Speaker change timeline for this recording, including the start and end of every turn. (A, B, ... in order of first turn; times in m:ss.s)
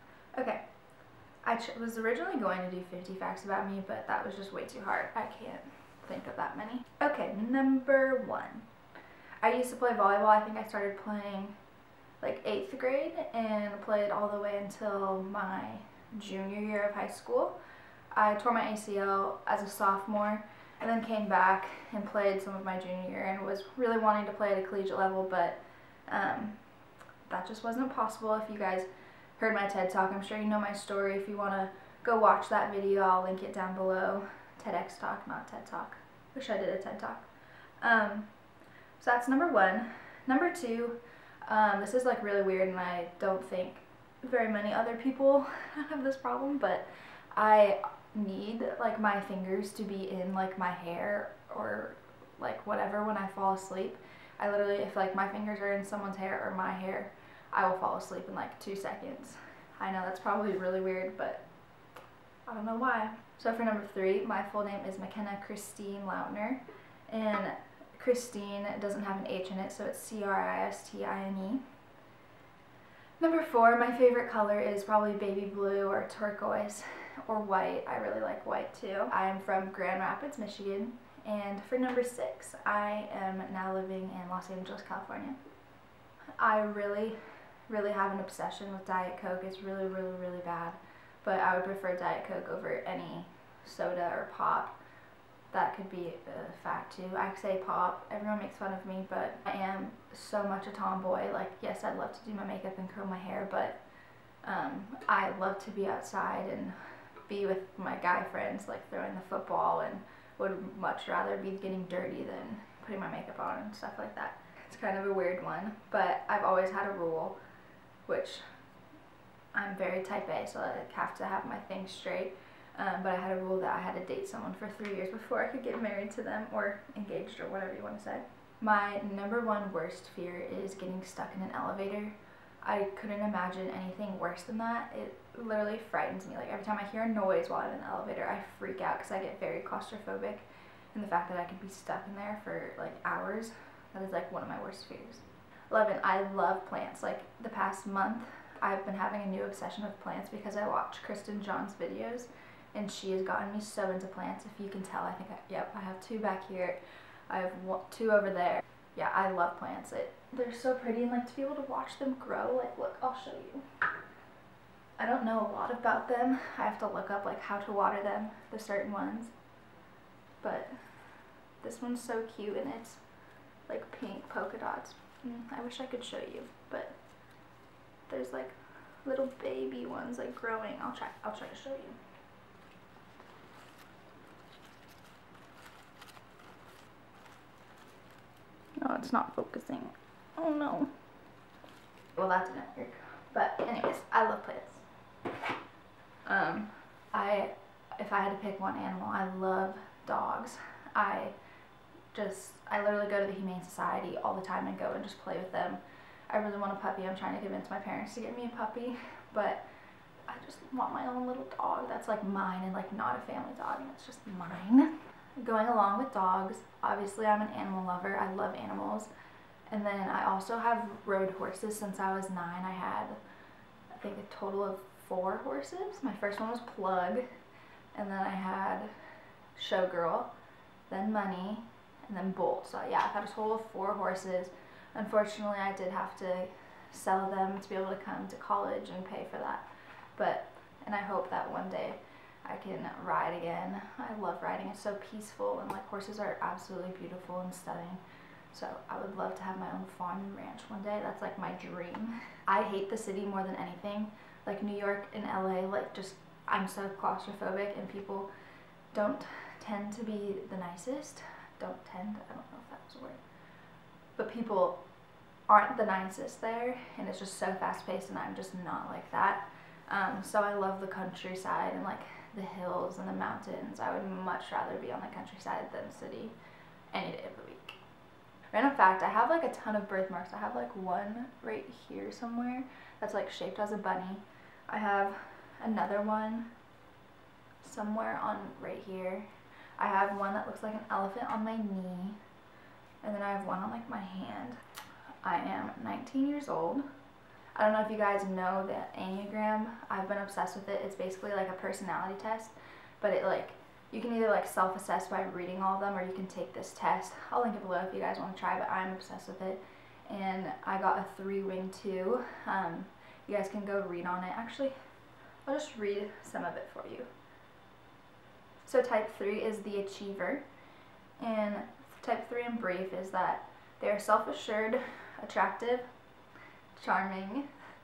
0:00.4-0:00.6 A
0:01.4-0:08.7 A
0:09.4-0:11.6 A
0:12.2-0:17.6 A
0:18.1-0:26.6 A
0:27.3-0:37.3 A
0:37.8-0:38.3 A
0:39.0-1:01.4 A
1:02.5-1:11.6 A
1:13.2-1:25.4 A
1:26.4-1:34.7 A
1:35.5-1:43.8 A
1:44.4-1:57.4 A
1:58.1-1:58.4 A
1:59.5-2:43.6 A
2:45.0-2:49.3 A
2:50.4-2:50.8 A
2:51.6-2:53.0 A
2:53.7-2:57.0 A
2:58.1-3:02.0 A
3:08.8-3:10.9 A
3:12.2-3:14.8 A
3:16.3-3:21.3 A
3:22.1-3:29.6 A
3:30.3-3:39.1 A
3:39.7-3:43.2 A
3:43.9-3:47.3 A
3:47.9-3:48.9 A
3:49.6-3:50.3 A
3:50.9-4:18.3 A
4:18.9-4:23.2 A
4:24.2-4:24.8 A
4:25.5-4:36.4 A
4:36.9-4:37.8 A
4:38.5-4:46.5 A
4:47.6-4:52.2 A
4:53.0-4:54.6 A
4:55.2-4:56.9 A
4:57.6-5:14.8 A
5:15.4-5:17.1 A
5:18.6-5:20.4 A
5:21.2-5:25.9 A
5:26.8-5:27.5 A